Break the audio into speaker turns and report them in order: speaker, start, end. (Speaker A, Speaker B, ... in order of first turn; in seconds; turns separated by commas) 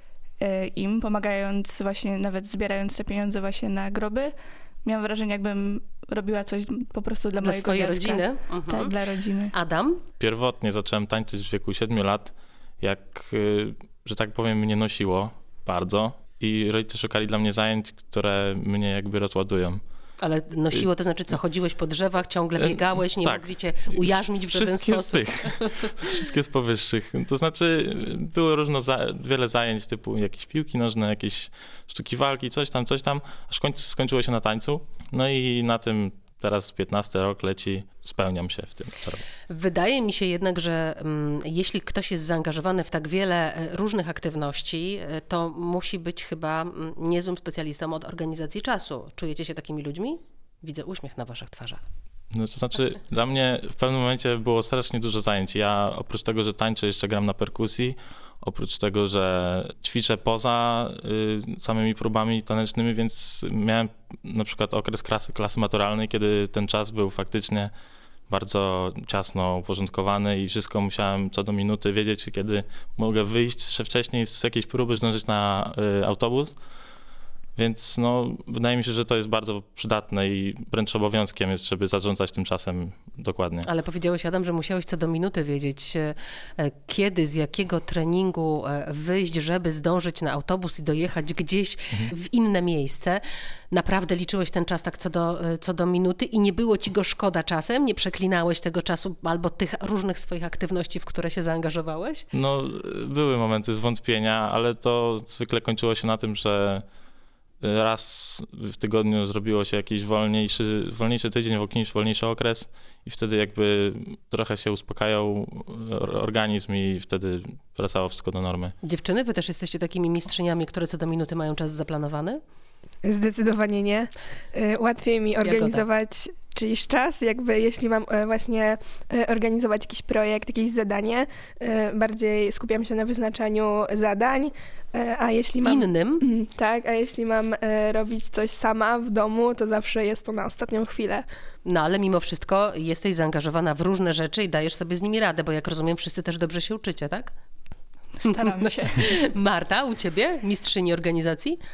Speaker A: 0.4-9.5, Speaker B: 7.4-8.9, Speaker B: 9.5-10.0, Speaker C: 10.2-19.8, Speaker B: 20.2-25.6, Speaker C: 22.6-39.2, Speaker B: 39.5-51.9, Speaker C: 52.3-67.7, Speaker C: 68.3-76.6, Speaker C: 77.6-83.7, Speaker B: 83.6-93.2, Speaker B: 93.7-102.3, Speaker C: 102.3-106.8, Speaker C: 107.6-118.7, Speaker B: 118.8-122.4, Speaker D: 123.0-141.3, Speaker B: 125.4-125.8, Speaker B: 135.6-136.2, Speaker B: 141.7-147.3, Speaker A: 148.2-149.1, Speaker B: 148.3-151.6